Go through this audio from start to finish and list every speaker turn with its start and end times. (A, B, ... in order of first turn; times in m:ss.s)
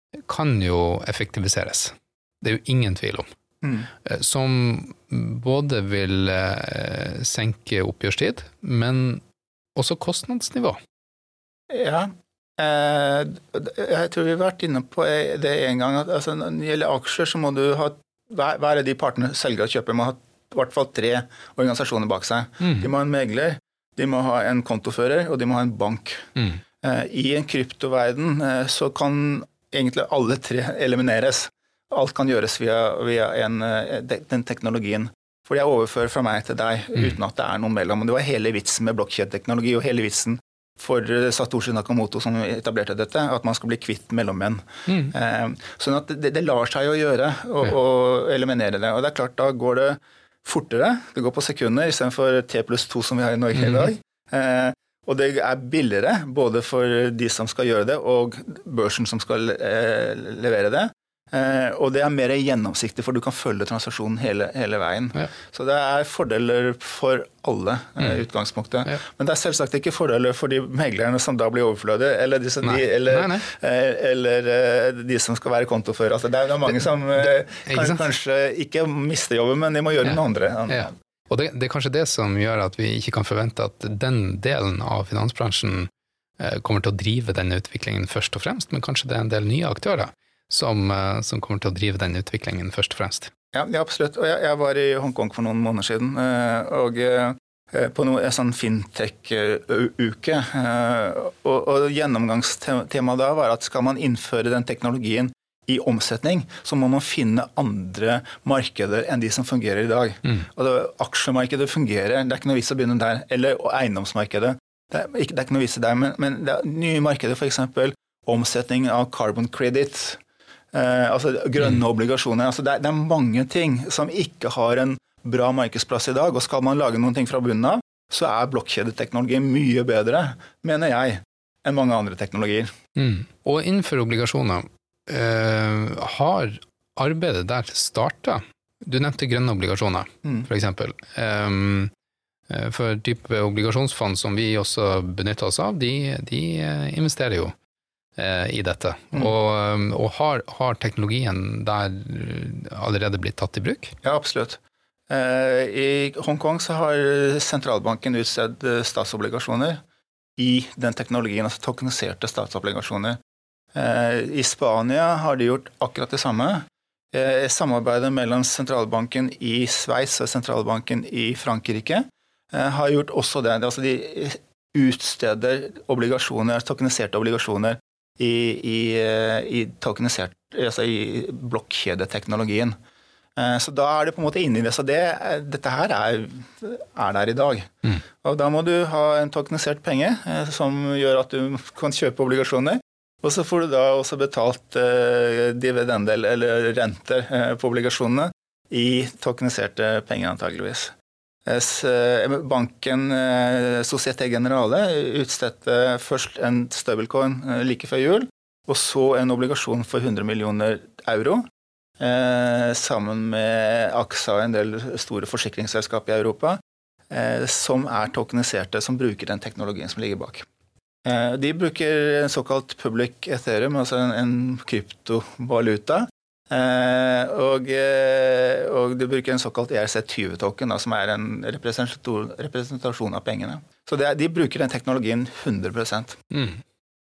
0:00.3-0:03.3 A
0:03.6-0:03.9 B
0:04.1-0:09.2 A
0:09.8-0:10.8 A
0:11.7-0:26.2 B
0:22.6-0:22.9 A
0:26.4-0:26.6 A
0:26.8-1:20.9 B
0:44.9-0:45.1 A
0:53.5-0:53.9 A
1:12.6-1:13.5 A
1:17.6-1:18.0 A
1:20.0-1:25.9 A
1:26.4-1:33.3 A
1:33.5-2:00.2 B
2:00.7-2:12.7 B
2:13.0-2:21.9 A
2:22.5-2:27.5 A
2:28.2-2:33.9 A
2:34.0-2:34.6 B
2:35.1-2:39.8 B
2:40.4-2:43.2 B
2:43.7-3:02.7 B
3:03.4-3:07.7 B
3:08.2-3:20.9 B
3:21.5-3:31.4 B
3:32.0-3:36.6 B
3:37.1-3:40.5 B
3:41.0-3:56.2 B
3:56.3-3:56.6 A